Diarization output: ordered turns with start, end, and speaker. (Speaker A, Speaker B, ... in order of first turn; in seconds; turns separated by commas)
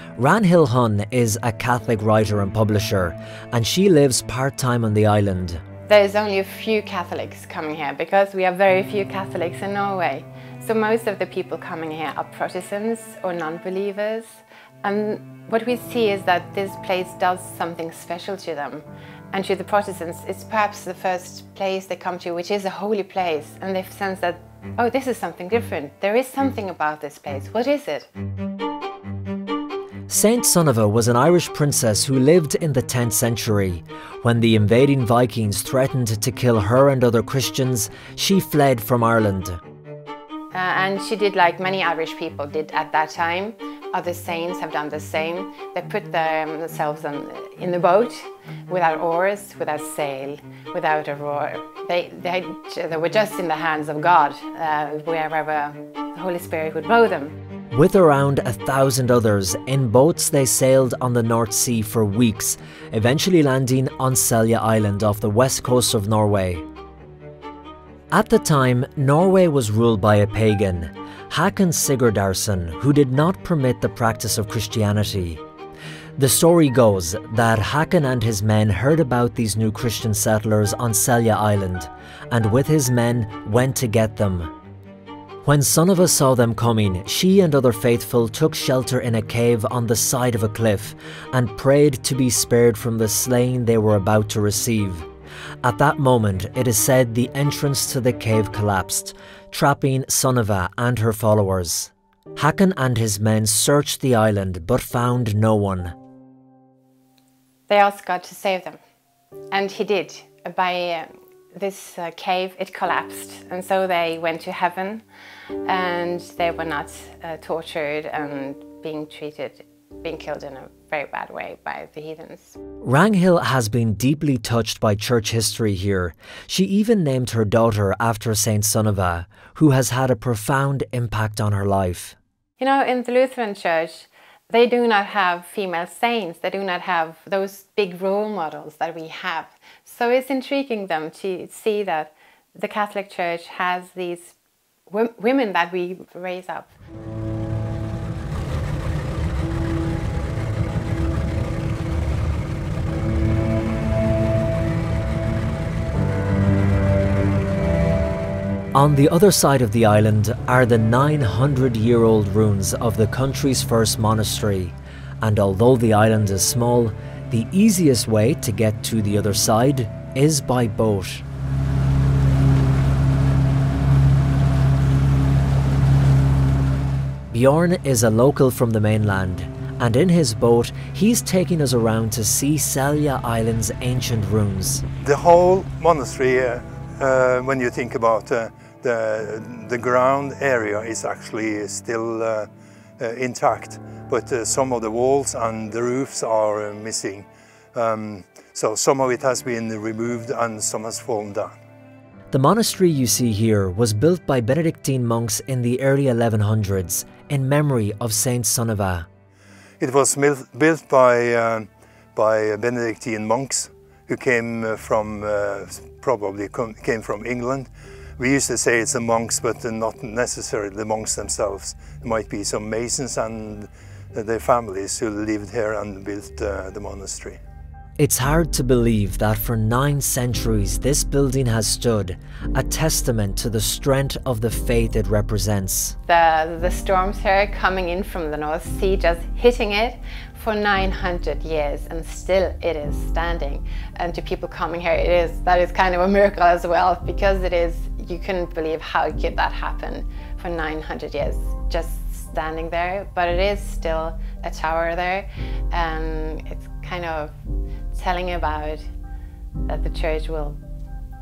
Speaker A: 0.2-5.6, Speaker B: 5.9-28.1, Speaker A: 30.1-39.6, Speaker B: 40.5-57.4, Speaker A: 57.7-66.7, Speaker A: 68.1-75.4, Speaker A: 76.2-84.5, Speaker A: 85.4-95.1, Speaker A: 95.6-106.0, Speaker B: 107.7-108.8, Speaker B: 109.5-115.1, Speaker B: 115.7-122.6, Speaker A: 122.8-132.2, Speaker B: 132.6-144.3, Speaker B: 144.9-146.7, Speaker A: 158.7-171.2, Speaker A: 177.3-184.8, Speaker C: 185.0-201.6, Speaker A: 202.3-209.1, Speaker C: 209.8-227.4, Speaker A: 228.0-236.0, Speaker B: 236.1-257.4, Speaker B: 257.9-258.9, Speaker B: 259.7-260.6